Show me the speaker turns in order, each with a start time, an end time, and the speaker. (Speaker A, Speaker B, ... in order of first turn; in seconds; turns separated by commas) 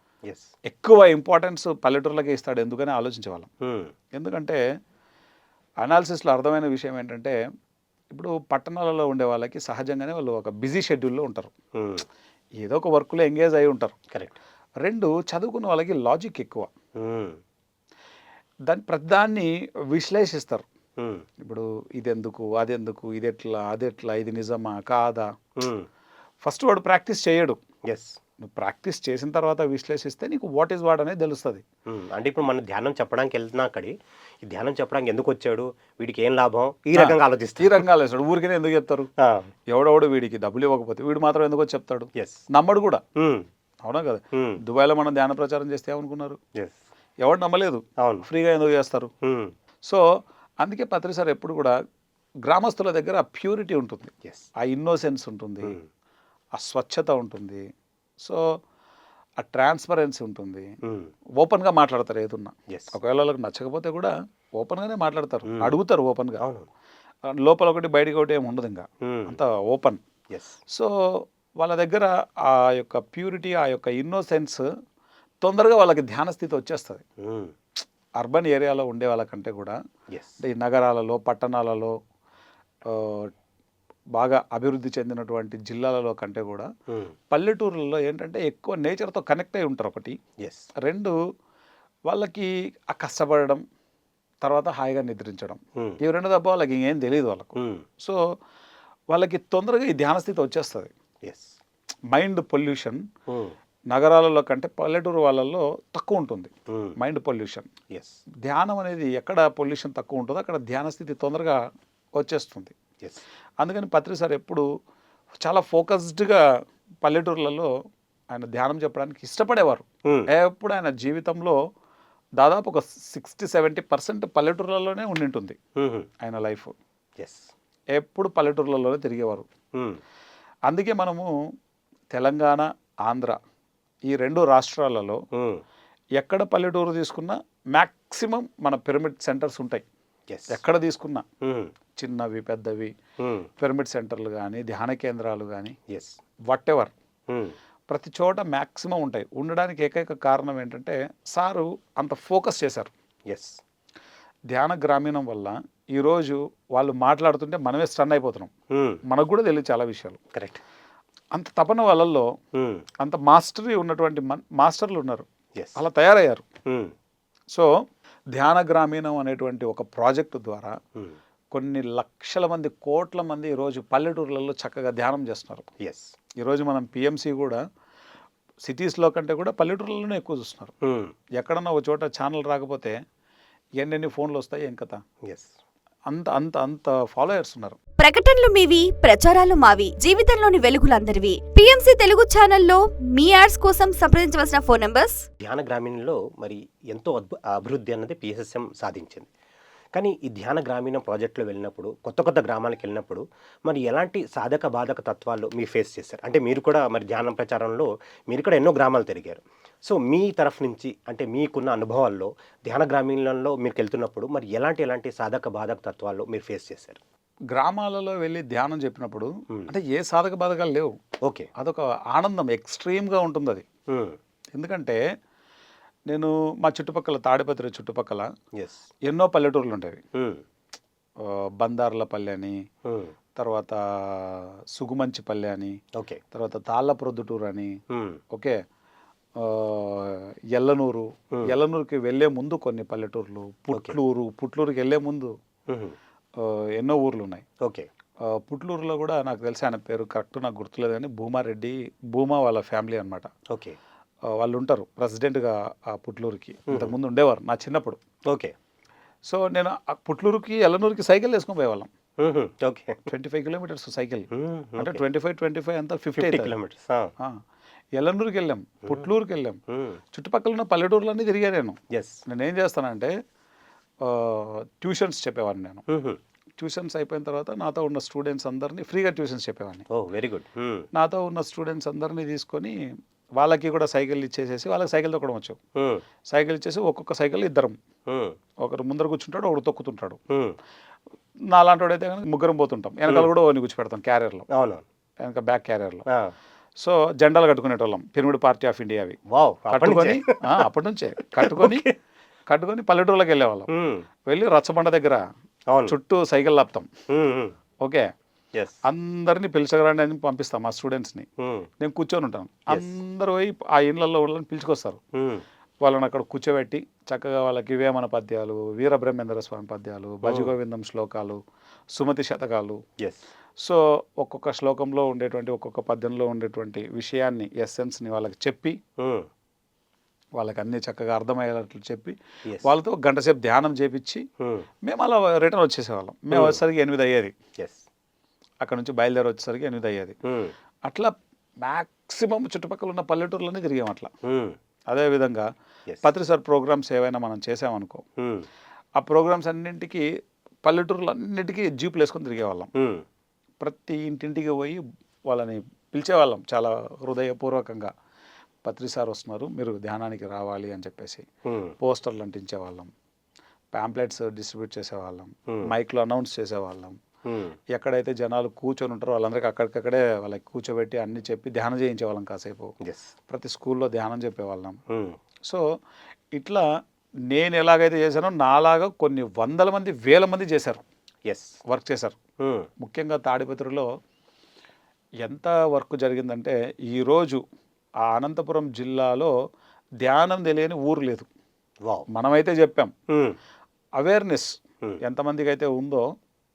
Speaker A: 0.2-0.5, Speaker B: 0.7-3.5, Speaker A: 3.6-3.9, Speaker B: 4.1-4.6, Speaker B: 5.8-7.4, Speaker B: 8.1-11.5, Speaker A: 11.7-12.0, Speaker B: 12.6-13.9, Speaker A: 14.1-14.4, Speaker B: 14.8-16.7, Speaker A: 16.9-17.4, Speaker B: 18.7-20.6, Speaker A: 21.0-21.2, Speaker B: 21.4-25.3, Speaker A: 25.6-25.9, Speaker B: 26.4-27.6, Speaker A: 27.9-28.2, Speaker B: 28.4-31.6, Speaker A: 31.9-37.8, Speaker B: 36.9-39.1, Speaker A: 39.2-39.5, Speaker B: 39.7-43.0, Speaker A: 42.1-42.4, Speaker A: 43.1-43.5, Speaker B: 43.8-46.4, Speaker A: 44.3-44.6, Speaker B: 47.2-49.1, Speaker A: 48.0-48.2, Speaker A: 49.2-49.5, Speaker B: 50.6-51.8, Speaker B: 52.5-55.8, Speaker B: 56.5-57.6, Speaker B: 58.2-58.6, Speaker B: 59.4-60.7, Speaker A: 60.8-61.1, Speaker B: 61.4-66.4, Speaker A: 62.7-62.9, Speaker A: 65.5-65.8, Speaker A: 66.4-66.7, Speaker B: 67.3-70.0, Speaker A: 69.0-69.4, Speaker A: 70.3-70.6, Speaker B: 70.7-74.6, Speaker B: 75.4-77.0, Speaker A: 77.2-77.5, Speaker B: 78.2-79.8, Speaker A: 80.1-80.3, Speaker B: 80.4-82.0, Speaker B: 82.9-83.3, Speaker B: 84.2-86.7, Speaker A: 86.9-87.1, Speaker B: 87.3-90.2, Speaker A: 90.4-90.7, Speaker B: 90.8-91.1, Speaker B: 92.1-93.6, Speaker B: 94.4-98.2, Speaker A: 97.5-97.8, Speaker B: 99.1-100.9, Speaker A: 101.2-101.5, Speaker B: 102.1-103.0, Speaker A: 103.3-103.5, Speaker B: 103.9-107.7, Speaker A: 106.7-107.0, Speaker A: 107.9-108.2, Speaker B: 108.4-111.6, Speaker B: 112.2-112.7, Speaker B: 113.6-114.7, Speaker B: 115.4-116.4, Speaker B: 117.0-117.7, Speaker B: 118.3-121.6, Speaker B: 122.4-125.6, Speaker A: 125.8-126.1, Speaker B: 126.2-126.7, Speaker A: 127.2-127.5, Speaker B: 127.9-129.5, Speaker A: 129.7-130.0, Speaker B: 130.7-131.3, Speaker B: 132.1-133.4, Speaker B: 134.1-135.2, Speaker A: 135.3-135.6, Speaker B: 136.2-139.8, Speaker A: 140.3-140.6, Speaker B: 140.5-141.2, Speaker A: 141.4-141.7, Speaker B: 141.9-142.9, Speaker A: 143.2-143.5, Speaker B: 143.6-145.8, Speaker A: 145.9-146.2, Speaker B: 146.5-146.9, Speaker A: 147.3-147.5, Speaker B: 147.9-152.9, Speaker A: 153.3-153.6, Speaker B: 154.5-158.5, Speaker A: 158.7-159.0, Speaker B: 159.0-160.2, Speaker A: 160.3-160.6, Speaker B: 161.3-162.3, Speaker A: 162.5-162.8, Speaker B: 163.0-166.4, Speaker A: 166.7-166.9, Speaker B: 168.3-170.8, Speaker B: 171.5-175.7, Speaker A: 175.8-176.1, Speaker B: 176.4-177.6, Speaker B: 178.6-180.7, Speaker A: 180.8-181.1, Speaker B: 181.3-183.0, Speaker B: 183.8-185.0, Speaker A: 185.2-185.5, Speaker B: 186.1-187.8, Speaker C: 188.0-195.2, Speaker A: 195.4-199.3, Speaker A: 199.9-217.0, Speaker B: 217.5-220.9, Speaker A: 221.2-221.5, Speaker B: 221.6-223.6, Speaker A: 223.9-224.2, Speaker B: 224.5-225.0, Speaker B: 226.1-228.3, Speaker A: 228.6-228.9, Speaker B: 229.1-230.0, Speaker A: 230.1-230.4, Speaker B: 231.2-232.6, Speaker A: 232.8-233.1, Speaker B: 233.3-235.8, Speaker A: 235.9-236.2, Speaker B: 236.3-237.8, Speaker A: 237.9-238.2, Speaker B: 238.3-238.6, Speaker B: 239.4-245.3, Speaker A: 243.7-244.0, Speaker A: 245.7-245.9, Speaker B: 246.4-247.4, Speaker A: 247.6-247.9, Speaker B: 248.2-253.3, Speaker A: 253.5-253.8, Speaker B: 254.3-258.0, Speaker A: 256.7-256.9, Speaker A: 258.2-258.6, Speaker B: 259.2-261.9, Speaker A: 262.2-263.0, Speaker B: 263.1-266.5, Speaker A: 264.3-265.0, Speaker A: 266.2-267.1, Speaker B: 267.9-269.6, Speaker A: 269.7-270.0, Speaker B: 270.1-273.1, Speaker A: 271.9-272.2, Speaker B: 274.0-275.8, Speaker A: 275.9-276.2, Speaker B: 276.6-279.9, Speaker A: 279.9-280.9, Speaker B: 280.9-282.8, Speaker B: 283.4-285.6, Speaker A: 285.7-286.0, Speaker B: 286.3-287.8, Speaker A: 288.1-288.4, Speaker B: 288.6-290.2, Speaker A: 290.3-290.6, Speaker B: 291.5-294.5, Speaker A: 294.5-294.8, Speaker B: 295.2-296.0, Speaker A: 296.1-296.3, Speaker B: 296.8-299.2, Speaker A: 299.3-300.6, Speaker B: 299.7-301.9, Speaker A: 301.2-301.9, Speaker B: 302.5-303.7, Speaker A: 303.7-304.1, Speaker B: 304.3-305.2, Speaker A: 305.7-305.9, Speaker B: 305.9-306.9, Speaker A: 307.1-307.5, Speaker B: 307.8-308.1, Speaker B: 308.8-311.3, Speaker A: 311.4-311.7, Speaker B: 311.8-315.0, Speaker A: 312.7-313.0, Speaker A: 315.1-315.4, Speaker B: 315.8-321.4, Speaker A: 320.2-320.5, Speaker B: 321.9-322.8, Speaker B: 323.6-328.8, Speaker A: 329.0-329.3, Speaker B: 330.4-334.2, Speaker A: 334.4-334.7, Speaker B: 334.8-337.3, Speaker A: 336.3-336.6, Speaker A: 337.6-337.8, Speaker B: 338.6-340.1, Speaker A: 340.2-340.5, Speaker B: 340.9-344.1, Speaker A: 344.2-344.6, Speaker B: 344.9-345.5, Speaker B: 346.0-348.0, Speaker A: 348.2-348.5, Speaker B: 349.0-350.1, Speaker B: 350.6-352.7, Speaker A: 352.7-353.0, Speaker B: 353.6-357.9, Speaker B: 358.6-361.2, Speaker A: 361.4-361.7, Speaker B: 361.8-362.9, Speaker B: 363.7-367.0, Speaker A: 367.2-367.6, Speaker B: 367.7-372.7, Speaker A: 372.8-373.1, Speaker B: 373.3-374.8, Speaker A: 374.9-375.2, Speaker B: 376.3-376.6, Speaker B: 377.3-380.8, Speaker A: 381.2-381.6, Speaker B: 381.7-382.1, Speaker A: 382.4-382.7, Speaker B: 382.8-383.9, Speaker B: 385.2-387.4, Speaker B: 388.0-389.3, Speaker B: 390.0-391.3, Speaker A: 391.8-392.1, Speaker B: 392.1-392.9, Speaker A: 393.1-393.4, Speaker B: 394.0-396.0